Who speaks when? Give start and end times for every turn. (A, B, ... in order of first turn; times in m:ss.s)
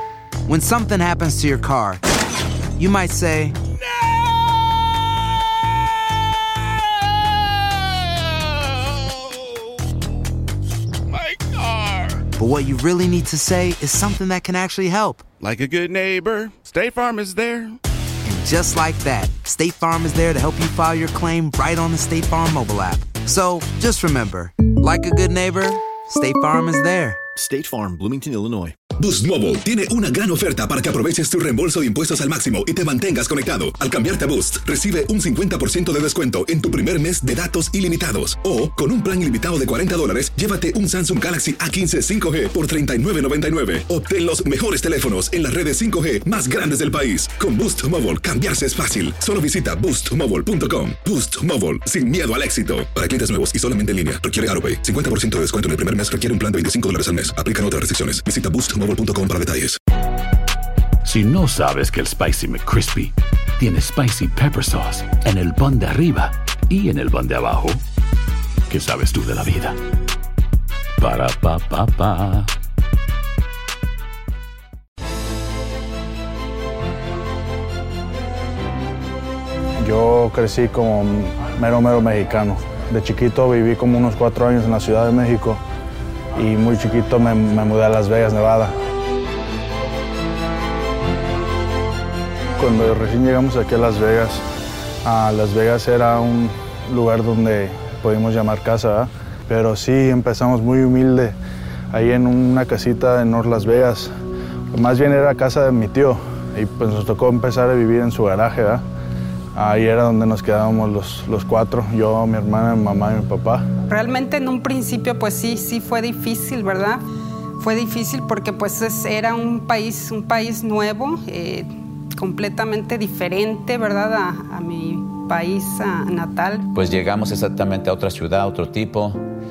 0:00.5-0:02.0 A
0:02.8-0:03.6 A
0:11.1-0:12.2 B
0:12.3-0:15.2 A
0:15.4-0:17.8 B
0:18.2-0:27.2 A
0:27.4-0:28.7 C
0:29.0-0:59.8 D
1:01.0-1:07.8 C
1:08.7-1:09.8 C
1:11.0-1:12.4 C
1:19.8-1:25.6 E
1:26.4-1:28.7 E
1:32.6-1:34.4 E
1:35.0-1:41.4 E
1:41.9-1:44.1 E
1:44.7-1:48.8 E
1:49.5-1:53.6 E
1:53.9-1:57.0 F
1:57.6-2:06.6 F
2:06.7-2:09.2 G